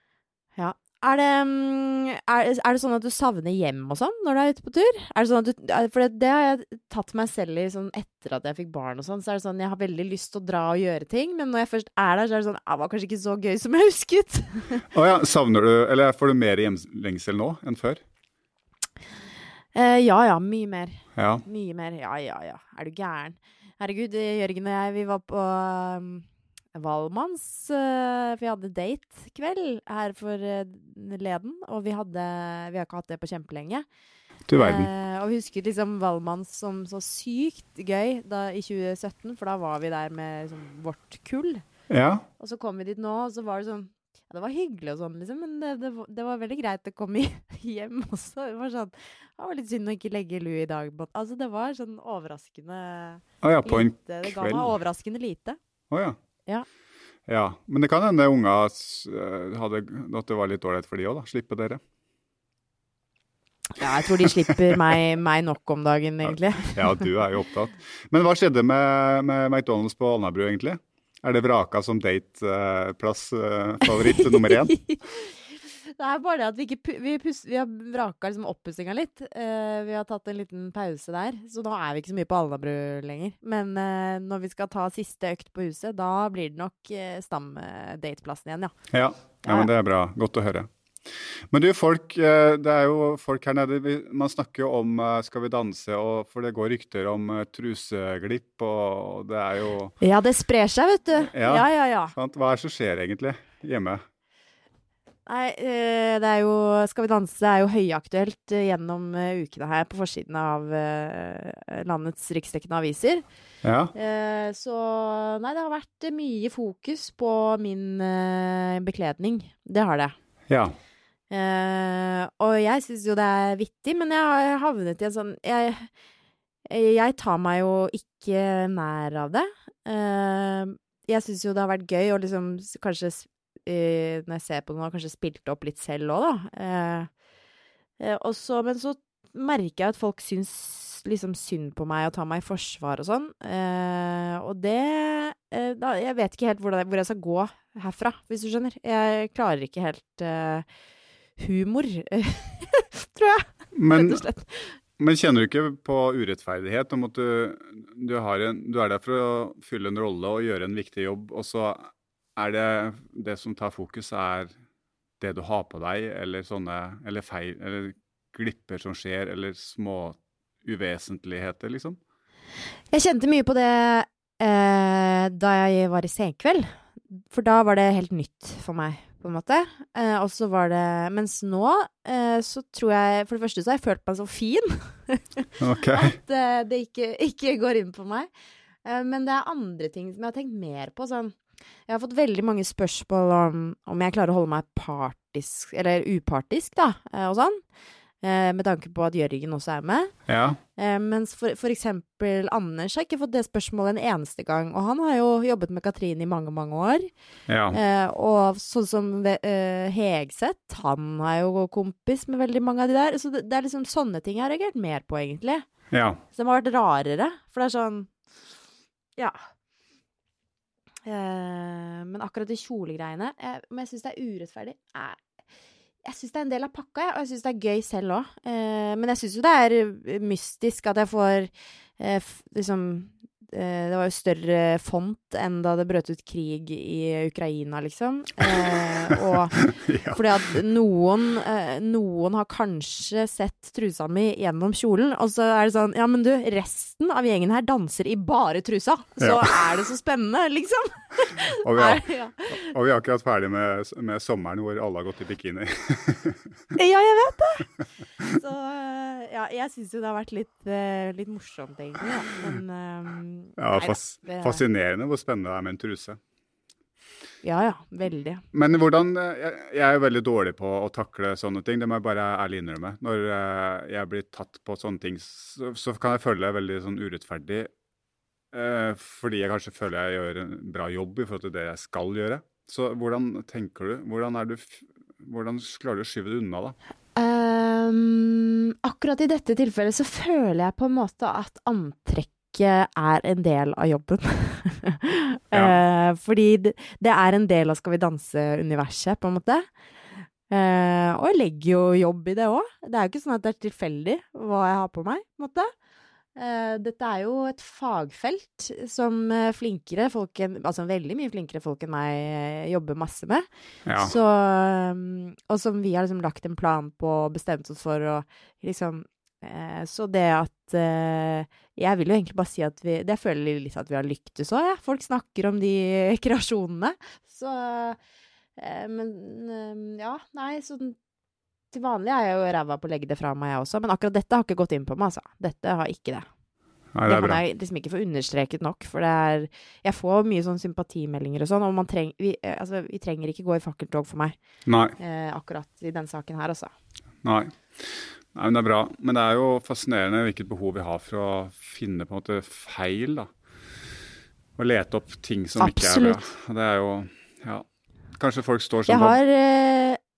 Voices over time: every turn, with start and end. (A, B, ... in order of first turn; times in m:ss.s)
0:00.6-0:14.8 A
0:14.9-0:18.0 B
0:19.8-0:33.9 A
0:21.2-0:21.4 B
0:34.5-0:34.9 B
0:34.6-0:41.6 A
0:41.9-0:42.2 B
0:42.4-0:55.6 A
0:53.4-0:54.7 B
0:55.9-0:56.2 B
0:57.3-1:01.8 B
1:03.8-1:07.1 A
1:04.2-1:04.8 B
1:06.2-1:14.8 B
1:14.1-1:15.4 A
1:16.0-1:28.7 A
1:28.9-1:30.7 B
1:31.5-1:39.9 B
1:40.0-1:42.2 A
1:41.2-1:44.0 B
1:45.3-1:53.2 A
1:53.6-1:53.9 B
1:53.9-2:00.2 A
2:00.5-2:00.8 B
2:01.3-2:05.9 A
2:06.7-2:17.1 A
2:18.0-2:30.7 A
2:31.4-2:34.8 A
2:33.7-2:34.2 B
2:35.0-2:44.5 B
2:45.2-2:52.0 B
2:52.9-3:08.3 A
3:05.6-3:06.2 B
3:08.8-3:11.4 A
3:11.9-3:17.6 A
3:18.2-3:20.1 A
3:20.3-3:20.6 B
3:20.8-3:27.1 A
3:27.5-3:27.8 B
3:27.7-3:35.7 A
3:35.9-3:36.2 B
3:36.3-3:38.1 A
3:41.1-3:45.2 A
3:46.0-3:59.6 A
3:58.6-4:00.2 B
4:00.1-4:12.7 A
4:09.2-4:09.6 B
4:11.6-4:16.5 B
4:16.8-4:24.6 A
4:23.6-4:26.2 B
4:27.4-4:28.4 A
4:28.5-4:37.7 B
4:38.5-4:46.8 B
4:47.2-4:59.7 A
4:55.5-4:55.8 B
5:00.5-5:05.7 A
5:06.4-5:28.0 A
5:13.9-5:14.2 B
5:28.6-5:31.0 A
5:31.7-5:36.3 A
5:37.0-5:37.4 B
5:37.1-5:44.4 A
5:44.7-5:45.0 B
5:45.0-5:46.7 A
5:47.2-5:53.3 B
5:54.6-5:57.7 B
5:55.6-5:56.2 A
5:58.2-5:59.2 B
5:58.9-6:00.0 A